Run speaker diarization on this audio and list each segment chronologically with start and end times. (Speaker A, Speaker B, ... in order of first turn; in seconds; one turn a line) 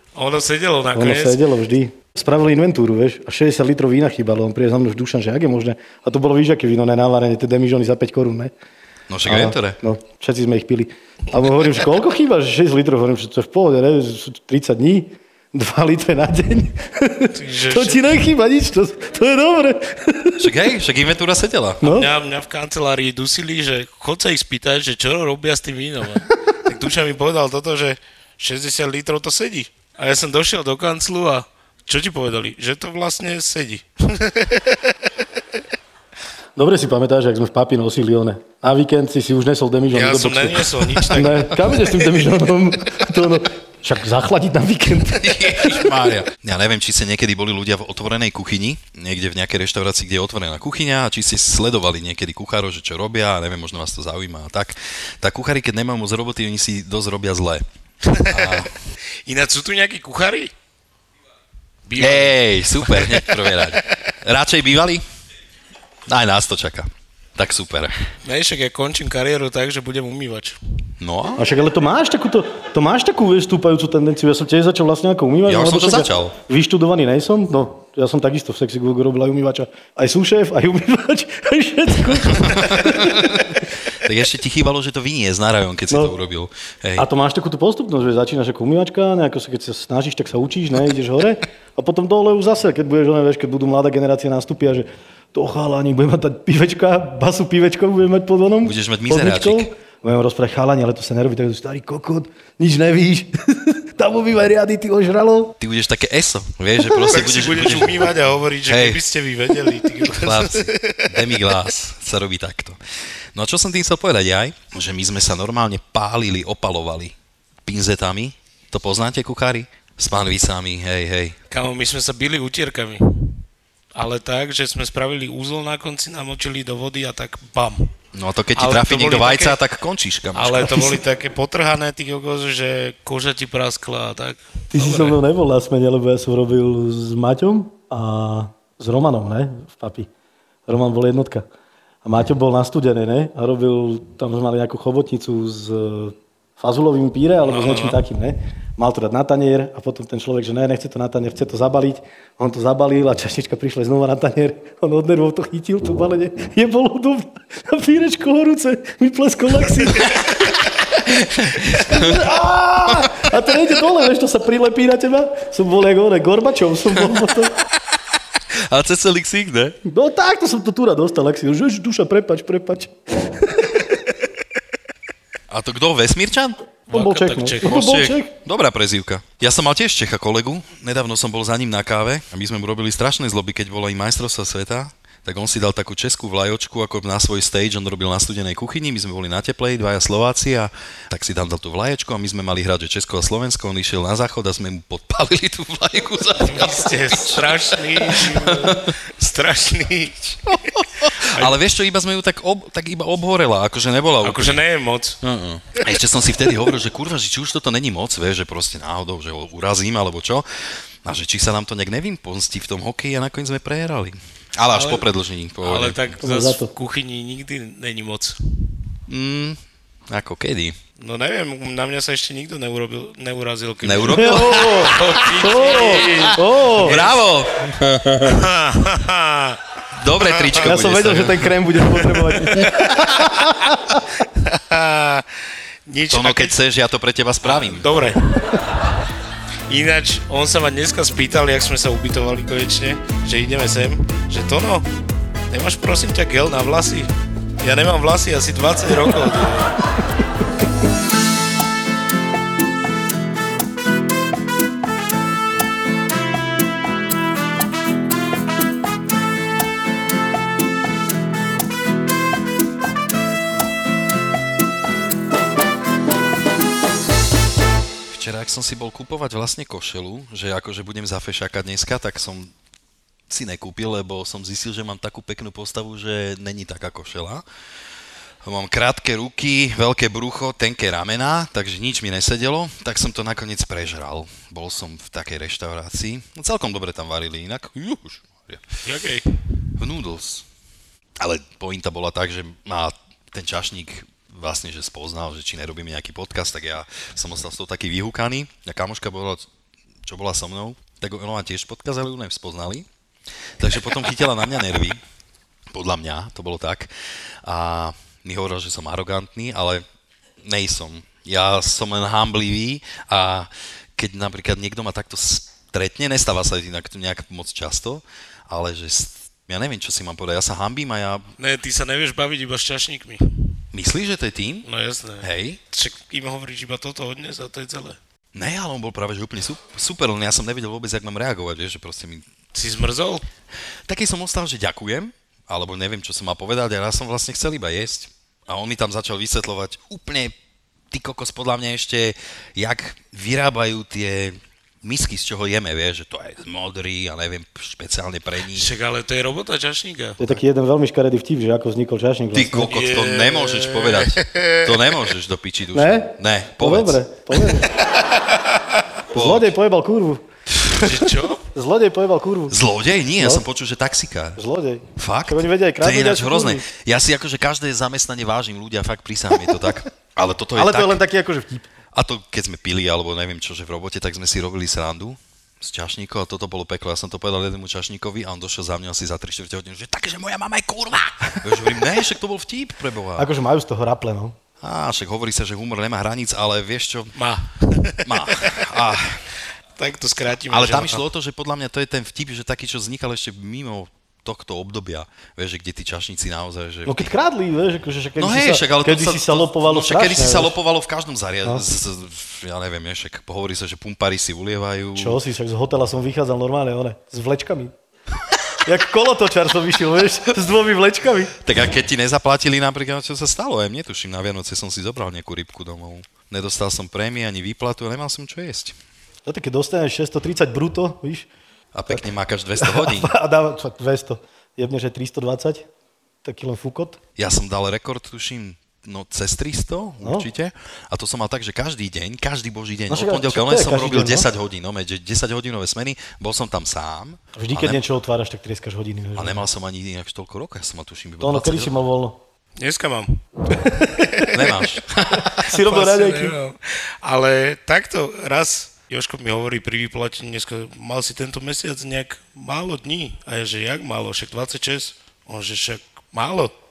Speaker A: 0.1-1.4
Speaker B: 0.9-8.5
Speaker C: 9.1-9.8
Speaker B: 9.3-20.5
Speaker A: 17.3-18.2
Speaker C: 20.4-21.8
Speaker B: 21.8-22.1
Speaker A: 21.8-34.7
Speaker B: 36.6-45.9
Speaker A: 39.9-42.0
Speaker C: 45.1-57.6
Speaker A: 58.1-58.7
Speaker C: 58.2-58.7
Speaker A: 59.3-60.5
Speaker A: 61.9-63.8
Speaker C: 62.0-65.0
Speaker C: 66.1-68.0
Speaker A: 68.2-70.6
Speaker C: 71.0-71.5
Speaker B: 71.4-83.6
Speaker C: 75.5-76.4
Speaker C: 82.3-87.1
Speaker B: 87.0-105.5
Speaker C: 98.6-99.7
Speaker C: 105.6-108.1
Speaker A: 106.9-111.4
Speaker C: 108.7-109.0
Speaker C: 110.1-112.8
Speaker C: 113.3-117.2
Speaker C: 117.7-121.4
Speaker A: 121.5-123.4
Speaker A: 124.0-127.9
Speaker C: 128.1-131.0
Speaker A: 128.6-129.6
Speaker A: 130.3-135.2
Speaker B: 134.7-140.1
Speaker B: 140.7-141.5
Speaker B: 142.1-160.6
Speaker A: 147.4-148.0
Speaker C: 161.1-163.3
Speaker B: 161.6-167.6
Speaker C: 168.6-169.8
Speaker B: 169.9-173.7
Speaker C: 175.5-176.6
Speaker A: 176.9-177.8
Speaker B: 176.9-178.3
Speaker C: 177.6-198.9
Speaker A: 196.4-200.3
Speaker C: 200.4-204.6
Speaker A: 204.2-205.2
Speaker C: 205.2-216.2
Speaker A: 214.7-215.1
Speaker A: 215.6-218.4
Speaker B: 216.2-216.7
Speaker C: 219.1-220.8
Speaker A: 221.0-227.2
Speaker C: 223.8-226.2
Speaker B: 224.1-227.0
Speaker C: 226.8-228.3
Speaker A: 228.2-229.6
Speaker C: 229.9-231.6
Speaker A: 230.2-230.8
Speaker B: 230.6-233.6
Speaker A: 232.4-233.2
Speaker A: 234.4-235.3
Speaker A: 235.9-236.6
Speaker C: 236.1-237.9
Speaker A: 237.4-238.6
Speaker A: 239.7-244.9
Speaker A: 245.5-247.1
Speaker A: 247.6-249.8
Speaker C: 268.1-272.5
Speaker C: 273.3-277.4
Speaker C: 278.4-288.8
Speaker A: 288.8-289.3
Speaker C: 289.8-290.5
Speaker C: 291.2-299.5
Speaker C: 300.1-302.9
Speaker C: 303.6-305.0
Speaker C: 305.7-306.9
Speaker C: 307.4-309.8
Speaker C: 310.4-321.3
Speaker A: 321.4-323.2
Speaker C: 323.7-324.7
Speaker A: 324.7-328.0
Speaker C: 325.2-325.6
Speaker C: 328.4-332.3
Speaker A: 332.5-333.2
Speaker C: 333.9-340.3
Speaker C: 340.9-348.7
Speaker A: 348.5-350.2
Speaker B: 350.2-352.7
Speaker C: 352.3-357.0
Speaker A: 352.7-354.7
Speaker B: 355.7-357.7
Speaker C: 359.1-359.5
Speaker B: 359.1-360.2
Speaker C: 360.5-360.9
Speaker A: 360.8-361.4
Speaker B: 361.5-362.6
Speaker C: 362.5-364.4
Speaker B: 363.2-363.4
Speaker B: 364.4-366.7
Speaker C: 365.0-371.0
Speaker B: 370.6-371.7
Speaker C: 371.9-383.3
Speaker B: 383.2-384.4
Speaker C: 384.6-387.2
Speaker A: 387.2-388.7
Speaker C: 388.1-389.3
Speaker A: 389.8-391.0
Speaker C: 390.5-397.1
Speaker B: 396.9-400.5
Speaker C: 398.2-405.2
Speaker B: 404.9-407.7
Speaker B: 408.6-411.3
Speaker C: 411.4-418.8
Speaker B: 419.3-421.3
Speaker C: 421.7-423.1
Speaker B: 422.6-425.7
Speaker B: 426.2-427.0
Speaker C: 427.2-437.8
Speaker B: 432.9-434.3
Speaker B: 437.4-439.4
Speaker C: 439.1-441.8
Speaker B: 441.2-442.2
Speaker A: 442.6-444.3
Speaker C: 444.3-445.4
Speaker B: 445.4-446.4
Speaker A: 445.5-456.5